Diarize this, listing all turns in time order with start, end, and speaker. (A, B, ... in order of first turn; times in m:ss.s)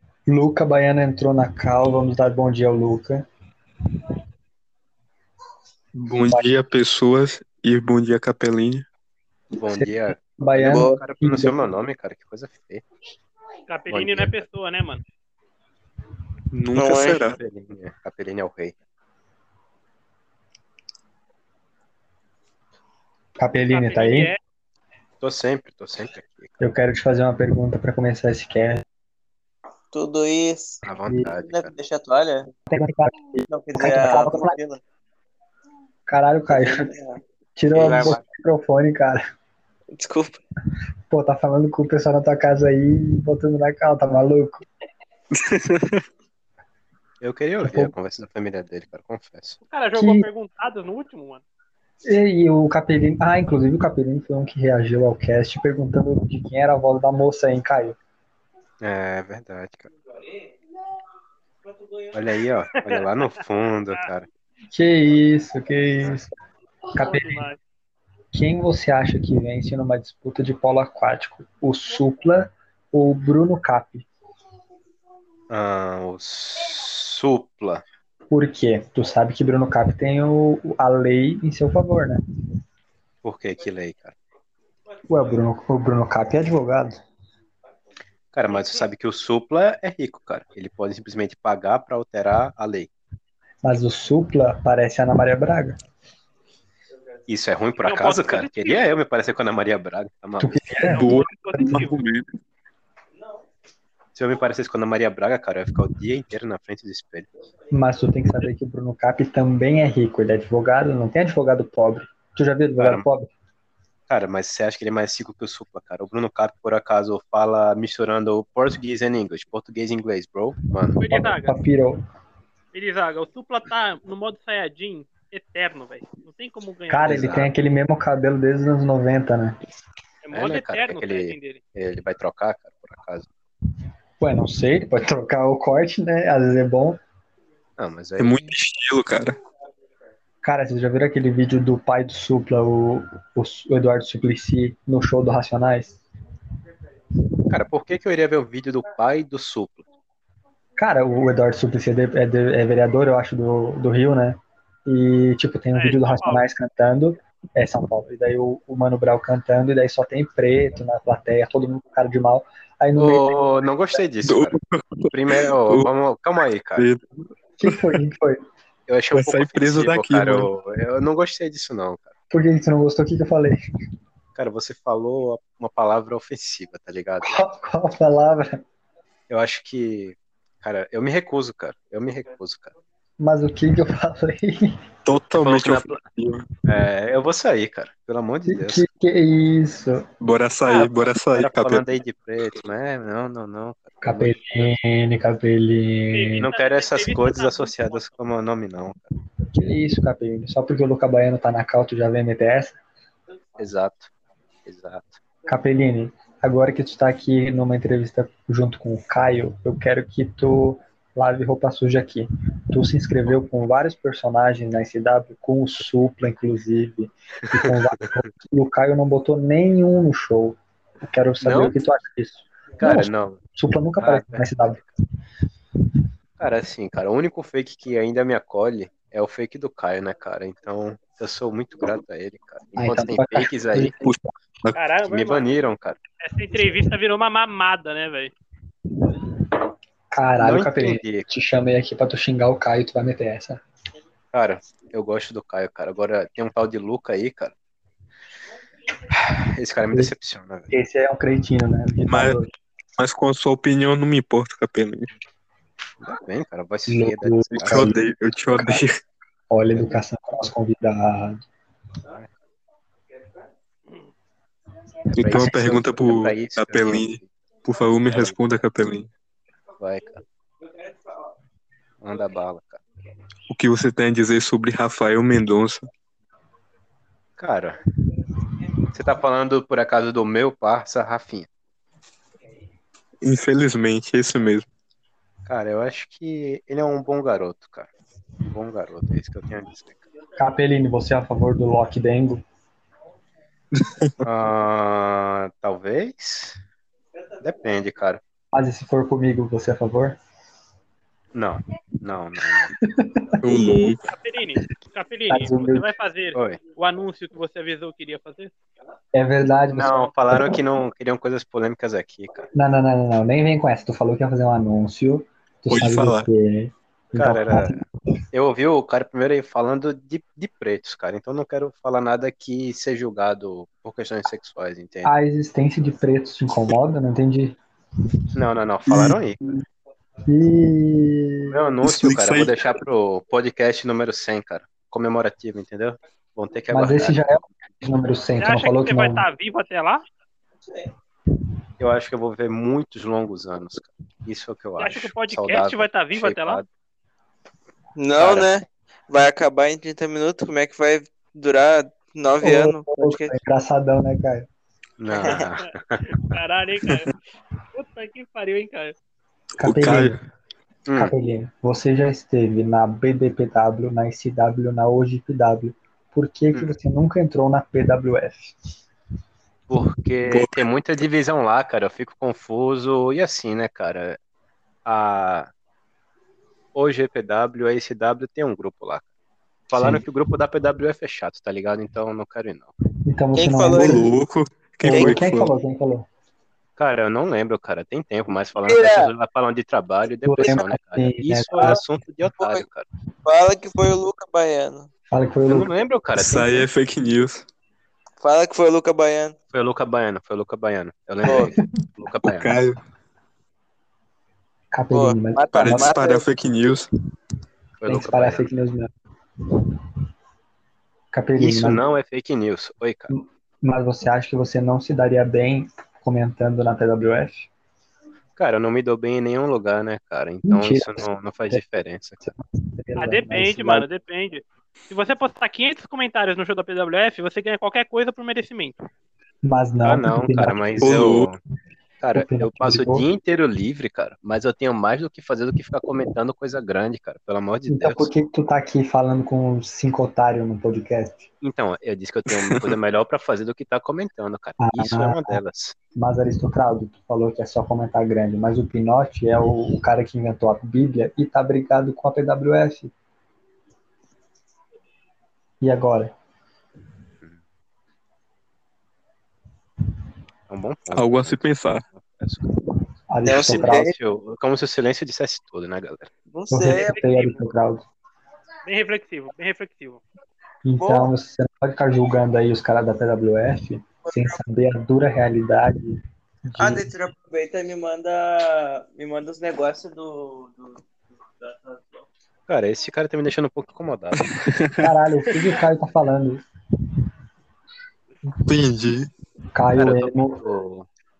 0:00.3-0:03.2 A
0:06.0-0:08.9 B
0:06.3-0:06.5 A
0:09.6-0:12.8 C
0:09.6-0:11.6 A
0:10.7-0:11.0 D
0:13.7-0:15.0 E
0:13.9-0:14.4 C
0:16.5-0:17.4 B
0:16.8-0:17.2 D
0:17.2-0:18.7 C
0:23.4-0:24.3 A
0:23.7-0:24.4 E
0:25.2-0:26.6 C
0:26.6-0:28.8 A
0:29.9-0:30.8 D
0:30.8-0:31.7 C
0:31.1-0:31.3 A
0:31.5-0:32.5 D
0:32.7-0:34.6 A
0:33.5-0:34.8 D
0:36.1-0:36.9 A
0:36.5-0:37.2 D
0:37.6-0:39.2 A
0:37.7-0:38.2 D
0:37.7-0:38.2 C
0:39.9-0:40.4 D
0:41.1-0:44.6 A
0:45.3-0:46.0 B
0:47.2-0:49.6 C
0:47.6-0:47.9 A
0:49.6-0:51.4 E
0:49.9-0:50.3 A
0:52.0-0:58.0 A
0:58.8-0:59.9 C
1:02.1-1:04.3 C
1:02.8-1:03.2 E
1:04.7-1:06.3 A
1:06.9-1:07.5 A
1:07.0-1:07.6 E
1:08.3-1:14.1 A
1:15.5-1:17.8 C
1:18.3-1:22.2 A
1:23.2-1:24.1 C
1:25.1-1:27.0 A
1:28.3-1:32.9 C
1:33.6-1:35.8 A
1:37.3-1:41.0 C
1:37.8-1:38.9 E
1:40.4-1:41.9 A
1:40.9-1:42.0 E
1:40.9-1:42.3 B
1:44.1-1:47.3 C
1:47.7-1:53.3 A
1:52.8-1:53.0 C
1:54.1-2:01.0 C
2:01.0-2:01.6 E
2:01.1-2:02.0 A
2:02.7-2:07.4 E
2:06.9-2:09.6 A
2:07.0-2:07.5 C
2:10.2-2:11.6 E
2:10.3-2:13.3 C
2:14.2-2:17.0 A
2:17.8-2:18.5 C
2:18.2-2:19.4 B
2:20.4-2:26.0 A
2:27.5-2:29.8 C
2:30.8-2:43.4 A
2:35.7-2:36.5 E
2:43.0-2:46.9 C
2:44.2-2:45.9 B
2:46.8-2:47.0 B
2:47.6-2:48.4 A
2:47.6-2:48.0 B
2:48.9-2:52.1 C
2:49.1-2:50.5 B
2:52.3-2:53.6 A
2:54.3-2:57.4 C
2:57.2-2:58.6 A
2:59.3-3:02.7 C
3:03.2-3:04.8 A
3:05.0-3:06.4 B
3:05.3-3:06.0 C
3:06.6-3:08.9 C
3:08.5-3:10.0 A
3:10.2-3:11.8 B
3:10.7-3:14.7 C
3:14.0-3:16.5 A
3:16.1-3:18.2 E
3:16.4-3:19.1 C
3:19.5-3:22.8 A
3:23.6-3:24.1 C
3:24.6-3:25.2 C
3:25.4-3:44.8 A
3:41.4-3:41.7 C
3:42.8-3:43.4 C
3:44.0-3:44.9 C
3:46.4-3:54.0 C
3:52.8-3:54.1 A
3:54.0-3:54.8 B
3:54.7-3:55.5 E
3:55.1-3:56.0 C
3:56.2-3:58.3 E
4:00.1-4:03.6 A
4:00.4-4:01.3 C
4:04.3-4:07.5 C
4:09.1-4:10.7 C
4:10.7-4:12.5 A
4:12.1-4:12.4 B
4:13.0-4:15.1 B
4:16.0-4:17.9 C
4:16.9-4:18.0 A
4:17.6-4:19.0 B
4:18.5-4:18.8 A
4:19.5-4:21.4 A
4:25.1-4:27.3 C
4:25.1-4:29.1 B
4:28.1-4:28.4 C
4:29.8-4:30.2 C
4:32.0-4:32.8 C
4:33.5-4:35.9 B
4:37.4-4:37.8 C
4:38.9-4:41.5 C
4:43.2-4:44.7 B
4:45.4-4:47.9 C
4:48.5-4:50.0 C
4:50.4-4:52.4 A
4:53.7-4:54.1 B
4:54.2-4:56.6 C
4:57.4-4:58.2 C
4:58.5-5:00.2 A
5:01.3-5:02.7 C
5:02.5-5:03.4 A
5:03.4-5:04.0 B
5:04.1-5:08.5 E
5:05.3-5:05.9 A
5:06.3-5:06.6 C
5:09.1-5:10.6 A
5:09.7-5:12.5 C
5:12.5-5:17.8 A
5:15.7-5:16.3 B
5:17.1-5:25.1 C
5:25.0-5:27.6 A
5:28.3-5:29.6 C
5:28.9-5:29.6 A
5:30.2-5:31.6 A
5:31.5-5:37.5 C
5:31.8-5:32.8 B
5:36.7-5:39.3 A
5:38.4-5:40.0 E
5:41.8-5:46.6 C
5:44.8-5:46.6 E
5:48.0-5:53.3 D
5:48.2-5:48.5 C
5:52.4-5:54.5 A
5:55.0-5:56.2 C
5:55.6-5:57.1 E
5:57.7-5:58.9 E
5:59.6-6:00.2 A
5:59.6-6:00.2 B
6:00.9-6:01.1 C
6:00.9-6:08.6 A
6:09.7-6:14.2 C
6:10.3-6:10.6 B
6:14.8-6:15.5 C
6:16.7-6:19.1 C
6:19.7-6:22.7 C
6:19.7-6:20.0 A
6:23.0-6:24.1 A
6:23.3-6:24.1 D
6:23.7-6:25.5 B
6:24.8-6:26.1 A
6:24.9-6:25.2 D
6:26.8-6:32.8 C
6:28.6-6:29.1 D
6:30.2-6:31.8 A
6:33.2-6:34.9 D
6:35.1-6:35.7 A
6:35.5-6:36.6 C
6:36.2-6:37.4 B
6:38.2-6:39.3 D
6:39.5-6:42.6 C
6:41.2-6:41.5 D
6:41.3-6:41.6 A
6:42.2-6:42.8 B
6:44.7-6:45.9 A
6:44.9-6:46.2 D
6:45.5-6:46.9 B
6:47.8-6:48.5 C
6:47.8-6:48.9 A
6:51.1-6:51.8 A
6:51.4-6:53.1 C
6:53.1-6:57.5 A
6:58.4-7:02.3 C
7:00.4-7:01.6 A
7:02.2-7:03.9 A
7:03.0-7:08.8 E
7:09.4-7:11.2 A
7:09.8-7:11.4 C
7:10.8-7:11.3 B
7:12.0-7:18.1 C
7:12.1-7:13.0 A
7:17.7-7:21.2 A
7:21.4-7:25.8 C
7:22.3-7:22.8 B
7:24.6-7:25.4 A
7:25.9-7:32.9 A
7:35.6-7:36.1 A
7:40.5-7:42.5 C
7:40.9-7:41.8 B
7:43.1-7:43.9 A
7:43.2-7:43.9 D
7:43.4-7:46.1 C
7:46.3-7:47.0 D
7:46.5-7:47.8 A
7:46.7-7:47.4 E
7:48.6-7:50.0 E
7:50.6-7:56.9 A
7:50.8-7:51.1 D
7:54.0-7:54.4 D
7:56.6-8:00.8 D
8:01.4-8:02.0 D
8:02.5-8:04.3 C
8:04.4-8:04.8 B
8:04.8-8:06.4 A
8:08.4-8:09.1 B
8:09.5-8:10.4 A
8:09.7-8:10.9 C